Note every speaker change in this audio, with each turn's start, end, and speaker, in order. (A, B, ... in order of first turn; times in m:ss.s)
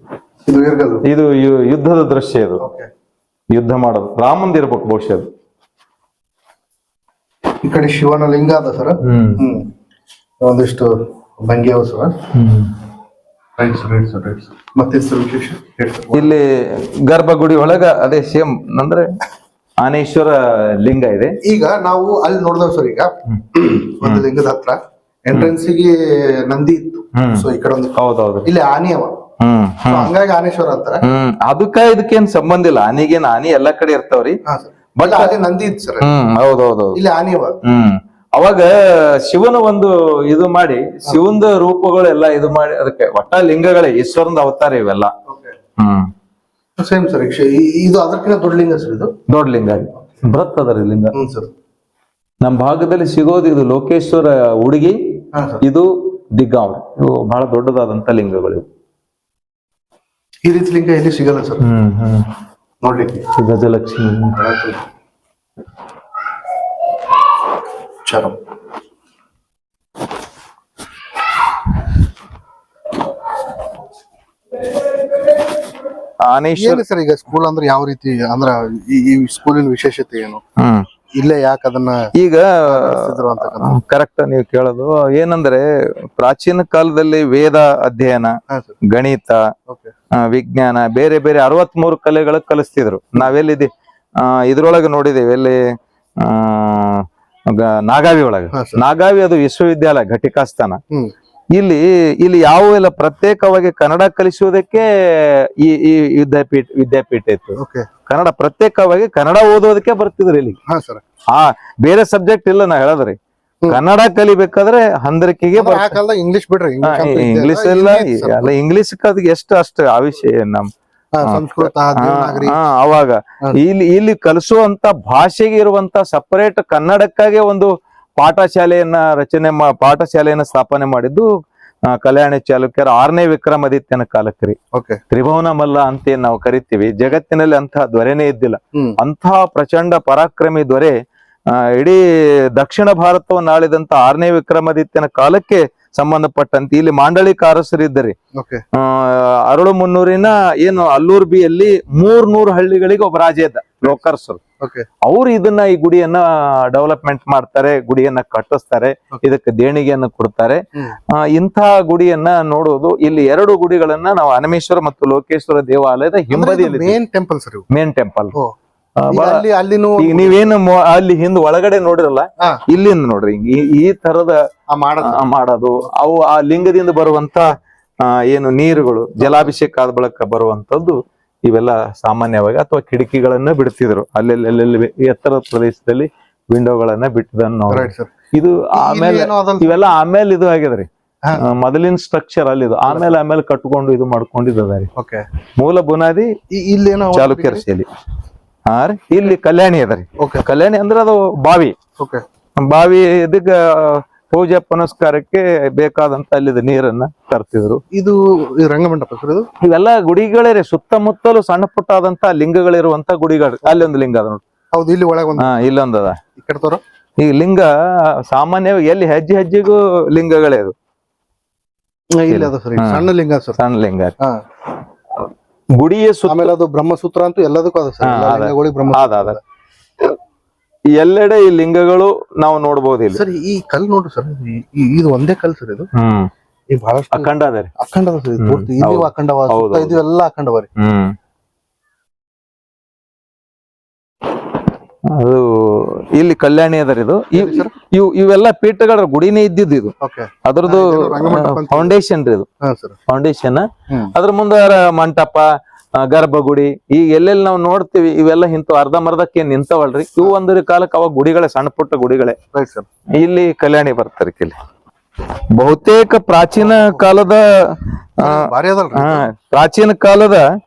0:00.5-0:01.0 A
0:01.0-0:02.6 B
0:02.6-0:02.9 A
0:03.5-0:05.3 B
0:07.6-0:09.7 A
0:09.0-0:09.5 B
0:10.4-0:12.2 A
0:12.3-0:12.7 B
0:13.6-0:16.3 A
0:16.1-0:19.2 B
0:19.8-0:21.4 B
0:21.4-0:29.2 A
0:23.3-0:24.3 B
0:27.1-0:28.5 B
0:29.4-0:30.1 B
0:29.9-0:31.0 A
0:31.0-0:34.4 B
0:34.5-0:36.1 A
0:35.0-0:35.3 B
0:36.0-0:37.0 B
0:37.0-0:37.6 A
0:37.6-0:45.1 B
0:45.3-0:45.5 A
0:45.8-0:46.1 B
0:46.8-0:49.1 A
0:49.3-0:51.2 B
0:51.1-0:51.5 A
0:52.4-0:55.0 B
0:55.3-0:55.6 A
0:55.6-0:58.7 B
1:00.4-1:01.6 A
1:01.6-1:02.3 B
1:02.8-1:03.3 A
1:03.3-1:04.4 B
1:04.3-1:04.8 A
1:08.0-1:08.4 A
1:16.2-1:16.8 B
1:16.6-1:20.4 A
1:20.6-1:20.9 B
1:21.1-1:22.1 A
1:22.2-1:29.5 B
1:22.7-1:23.8 A
1:28.5-1:28.8 A
1:30.1-1:40.8 B
1:38.5-1:38.8 A
1:41.5-1:50.6 B
1:47.6-1:47.9 A
1:50.7-1:51.0 A
1:51.3-1:53.2 B
1:53.7-1:56.0 B
1:55.6-1:58.5 A
1:56.8-2:00.7 B
2:01.1-2:02.6 A
2:01.2-2:11.3 B
2:11.9-2:14.6 B
2:14.7-2:15.0 A
2:15.1-2:22.0 B
2:22.6-2:28.2 B
2:28.3-2:28.6 A
2:28.7-2:34.4 B
2:34.6-2:34.9 A
2:35.0-2:47.0 B
2:46.3-2:47.7 A
2:47.7-2:48.4 B
2:49.0-2:49.4 B
2:49.1-2:50.5 A
2:50.0-2:54.4 B
2:54.7-2:55.2 A
2:55.0-3:14.9 B
2:59.2-2:59.5 A
3:07.7-3:08.2 A
3:08.7-3:09.8 A
3:11.2-3:11.5 A
3:15.0-3:15.2 A
3:15.6-3:16.4 B
3:16.5-3:17.6 A
3:17.1-3:17.9 B
3:18.7-3:21.8 B
3:20.2-3:20.4 A
3:22.0-3:22.2 A
3:22.6-3:27.8 B
3:27.9-3:29.5 A
3:29.6-3:34.4 B
3:34.7-3:35.5 A
3:35.4-3:36.2 B
3:36.4-3:36.8 A
3:37.2-3:40.7 B
3:42.1-3:43.6 A
3:42.3-3:44.1 B
3:45.7-3:46.5 B
3:46.3-3:49.4 A
3:48.0-3:49.4 B
3:51.0-3:53.2 B
3:53.1-3:55.9 A
3:55.9-3:56.3 B
3:56.7-4:00.7 A
3:57.1-3:57.7 B
3:58.4-4:00.0 B
4:00.8-4:01.2 B
4:05.1-4:12.5 B
4:07.4-4:07.7 A
4:10.0-4:12.0 A
4:12.6-4:13.0 A
4:13.1-4:22.4 B
4:22.5-4:22.9 A
4:23.2-4:24.6 B
4:25.5-4:30.5 B
4:26.7-4:27.1 A
4:28.2-4:29.3 A